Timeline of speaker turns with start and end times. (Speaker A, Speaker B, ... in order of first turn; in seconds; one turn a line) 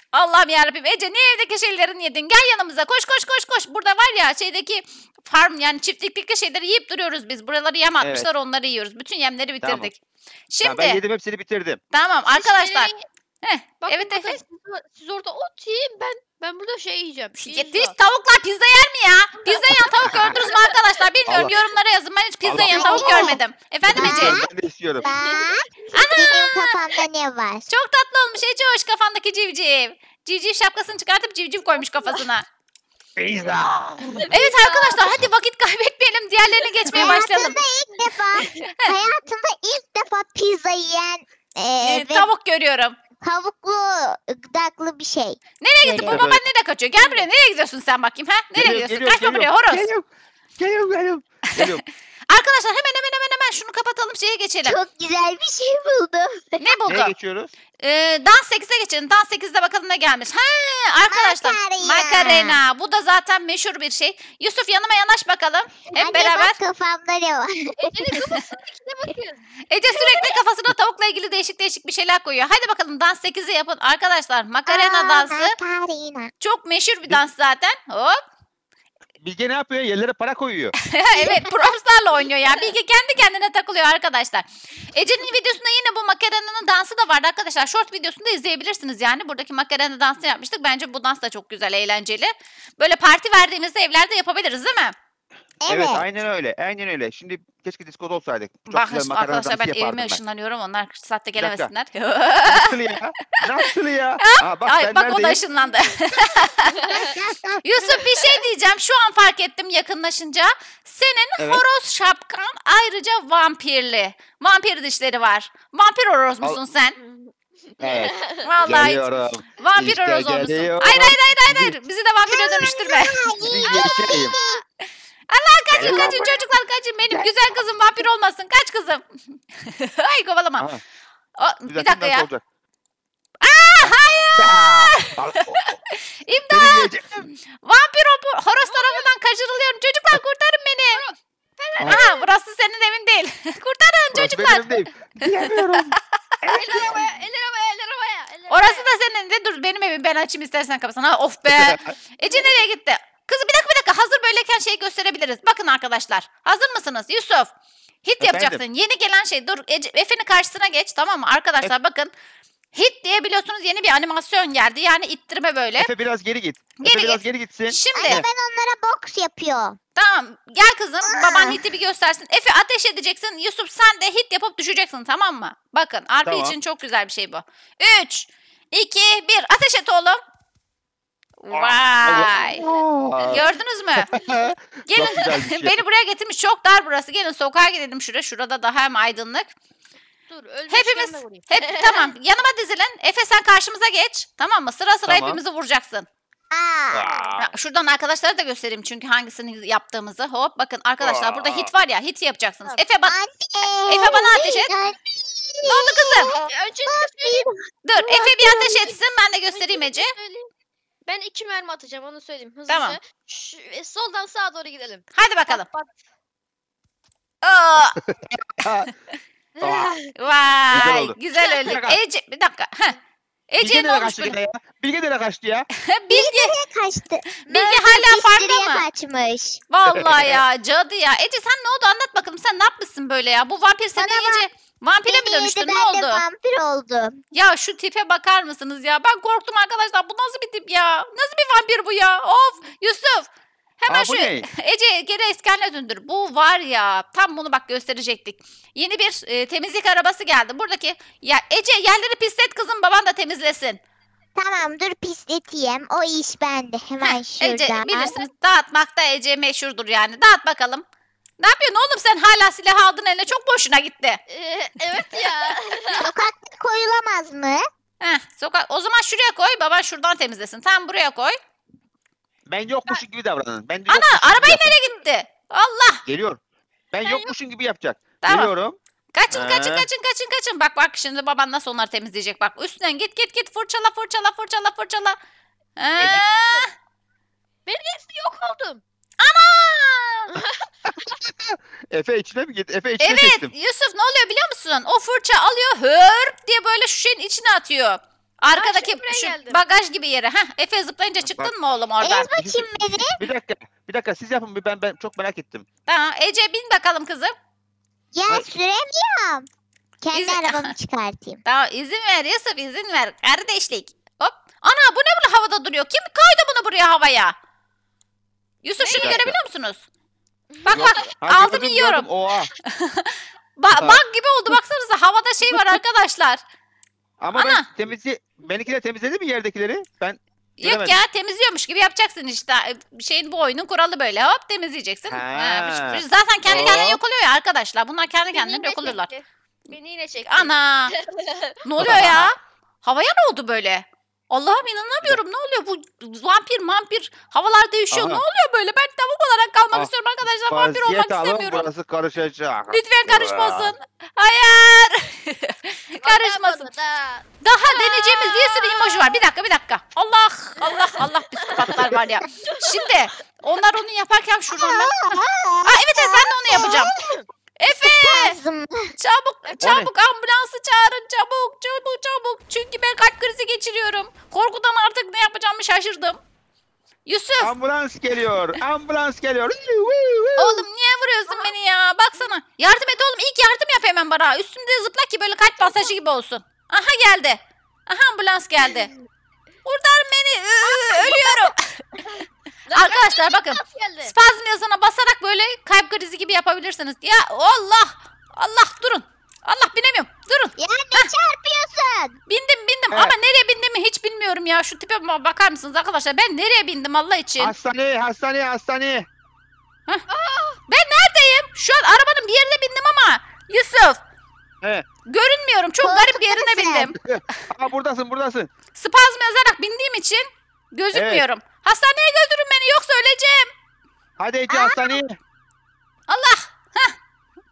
Speaker A: 0.1-10.0
Speaker B: 8.0-8.3
Speaker B: 9.6-9.9
Speaker A: 10.5-11.0
Speaker B: 10.6-11.8
Speaker A: 11.9-12.9
Speaker C: 12.3-13.1
Speaker A: 13.4-14.4
Speaker C: 13.8-17.9
Speaker A: 17.4-24.4
Speaker B: 20.1-20.4
Speaker C: 20.4-20.8
Speaker B: 21.3-21.5
Speaker B: 22.4-25.1
Speaker D: 22.7-23.4
Speaker D: 23.9-24.5
Speaker C: 25.0-26.4
Speaker D: 25.0-27.7
Speaker A: 25.9-26.8
Speaker A: 27.7-32.5
Speaker C: 31.9-32.2
Speaker B: 33.2-34.3
Speaker C: 34.2-35.2
Speaker A: 34.3-37.6
Speaker D: 36.9-42.3
Speaker A: 38.6-38.9
Speaker A: 41.8-43.0
Speaker D: 43.2-46.2
Speaker A: 45.6-49.9
Speaker B: 46.0-46.4
Speaker B: 48.5-50.1
Speaker B: 50.6-51.8
Speaker A: 52.3-54.8
Speaker D: 54.7-56.8
Speaker A: 56.6-57.1
Speaker B: 56.9-57.5
Speaker A: 57.8-66.6
Speaker D: 61.1-62.6
Speaker D: 65.9-68.2
Speaker C: 67.7-70.3
Speaker A: 69.7-75.5
Speaker D: 74.7-76.3
Speaker A: 76.4-78.2
Speaker B: 79.2-80.8
Speaker A: 80.8-95.0
Speaker D: 81.1-81.7
Speaker D: 95.6-96.0
Speaker B: 95.7-100.2
Speaker A: 98.7-102.8
Speaker B: 101.4-101.7
Speaker B: 102.5-105.4
Speaker A: 104.2-107.1
Speaker C: 106.3-107.2
Speaker D: 106.9-107.5
Speaker A: 107.6-117.0
Speaker B: 111.4-111.6
Speaker C: 117.0-118.5
Speaker B: 117.8-121.8
Speaker A: 118.4-123.3
Speaker D: 122.3-124.6
Speaker B: 123.4-124.3
Speaker C: 123.6-124.6
Speaker A: 125.3-130.7
Speaker B: 125.7-126.5
Speaker A: 131.4-132.3
Speaker B: 131.7-132.4
Speaker A: 133.4-136.9
Speaker B: 133.8-135.8
Speaker B: 136.5-137.3
Speaker A: 137.6-141.0
Speaker C: 138.7-139.1
Speaker C: 140.9-142.3
Speaker A: 141.9-145.9
Speaker B: 144.1-147.1
Speaker C: 146.5-148.9
Speaker A: 148.5-157.5
Speaker B: 151.5-151.9
Speaker A: 158.0-162.1
Speaker B: 158.2-158.6
Speaker A: 162.7-165.9
Speaker B: 165.8-168.3
Speaker A: 166.8-168.2
Speaker D: 167.9-169.8
Speaker A: 170.0-180.2
Speaker D: 171.0-171.6
Speaker B: 176.2-176.6
Speaker A: 181.4-182.6
Speaker B: 181.5-183.4
Speaker C: 182.3-182.7
Speaker A: 183.3-184.1
Speaker B: 184.0-185.8
Speaker A: 184.9-189.5
Speaker C: 190.3-192.1
Speaker A: 190.7-196.1
Speaker B: 195.1-195.4
Speaker D: 196.5-197.2
Speaker B: 196.9-197.5
Speaker A: 197.4-203.2
Speaker B: 201.0-201.7
Speaker D: 203.1-207.5
Speaker A: 203.8-204.7
Speaker A: 205.6-206.3
Speaker C: 206.4-209.0
Speaker A: 207.8-210.1
Speaker C: 209.5-210.5
Speaker C: 211.1-216.0
Speaker A: 212.7-213.0
Speaker A: 215.1-215.7
Speaker A: 217.4-218.0
Speaker B: 218.0-218.9
Speaker C: 219.6-220.1
Speaker B: 219.6-220.0
Speaker A: 220.2-223.0
Speaker B: 220.7-222.0
Speaker A: 223.5-224.4
Speaker B: 223.6-225.7
Speaker A: 225.8-226.5
Speaker D: 226.1-229.6
Speaker A: 227.5-228.8
Speaker A: 229.7-236.2
Speaker B: 229.9-230.4
Speaker D: 234.0-234.5
Speaker D: 235.1-237.2
Speaker A: 237.3-253.8
Speaker B: 243.9-244.5
Speaker D: 254.4-258.2
Speaker A: 257.0-260.8
Speaker A: 261.4-264.2
Speaker C: 264.3-266.1
Speaker D: 265.9-267.6
Speaker A: 268.0-271.4
Speaker B: 272.5-274.8
Speaker A: 273.9-276.0
Speaker B: 276.1-276.4
Speaker B: 276.9-278.8
Speaker C: 277.0-277.3
Speaker A: 278.2-278.5
Speaker A: 279.1-285.2
Speaker B: 279.3-279.9
Speaker A: 285.8-286.7
Speaker C: 286.0-286.7
Speaker C: 287.7-288.8
Speaker A: 289.2-290.3
Speaker C: 290.3-291.2
Speaker B: 290.9-293.5
Speaker A: 293.0-302.3
Speaker C: 298.5-299.6
Speaker B: 301.2-301.5
Speaker D: 302.0-303.2
Speaker B: 302.4-305.7
Speaker A: 305.9-307.3
Speaker D: 308.1-309.5
Speaker D: 310.0-311.4
Speaker A: 310.1-310.7
Speaker A: 311.4-317.4
Speaker A: 318.6-319.8
Speaker C: 318.8-319.2
Speaker B: 319.0-319.4
Speaker C: 320.5-321.1
Speaker A: 320.7-322.1
Speaker B: 320.7-322.5
Speaker A: 322.7-326.4
Speaker B: 323.8-324.0
Speaker B: 325.5-325.8
Speaker B: 327.2-331.0
Speaker A: 327.3-327.7
Speaker A: 330.6-339.1
Speaker B: 335.1-337.0
Speaker C: 338.3-341.6
Speaker A: 340.3-340.9
Speaker A: 341.6-351.7
Speaker B: 341.8-342.3
Speaker B: 347.9-348.2
Speaker B: 350.5-353.8
Speaker A: 352.7-356.7
Speaker C: 356.0-359.2
Speaker A: 357.4-366.9
Speaker C: 360.6-361.7
Speaker C: 362.4-362.9
Speaker D: 364.5-368.9
Speaker C: 366.9-367.2
Speaker A: 367.6-368.4
Speaker A: 369.0-376.2
Speaker B: 369.6-369.9
Speaker A: 377.1-377.5
Speaker B: 377.4-380.7
Speaker A: 380.4-388.9
Speaker C: 385.6-385.9
Speaker C: 388.6-389.1
Speaker A: 389.6-392.0
Speaker C: 390.6-394.1
Speaker A: 392.7-401.1
Speaker D: 400.6-402.2
Speaker A: 402.3-407.5
Speaker B: 407.4-409.1
Speaker C: 410.1-410.6
Speaker A: 410.7-414.0
Speaker A: 415.1-417.4
Speaker D: 415.8-416.9
Speaker B: 417.0-418.5
Speaker A: 418.7-423.5
Speaker B: 420.9-421.2
Speaker B: 424.2-425.2
Speaker D: 424.5-425.0
Speaker A: 426.1-427.0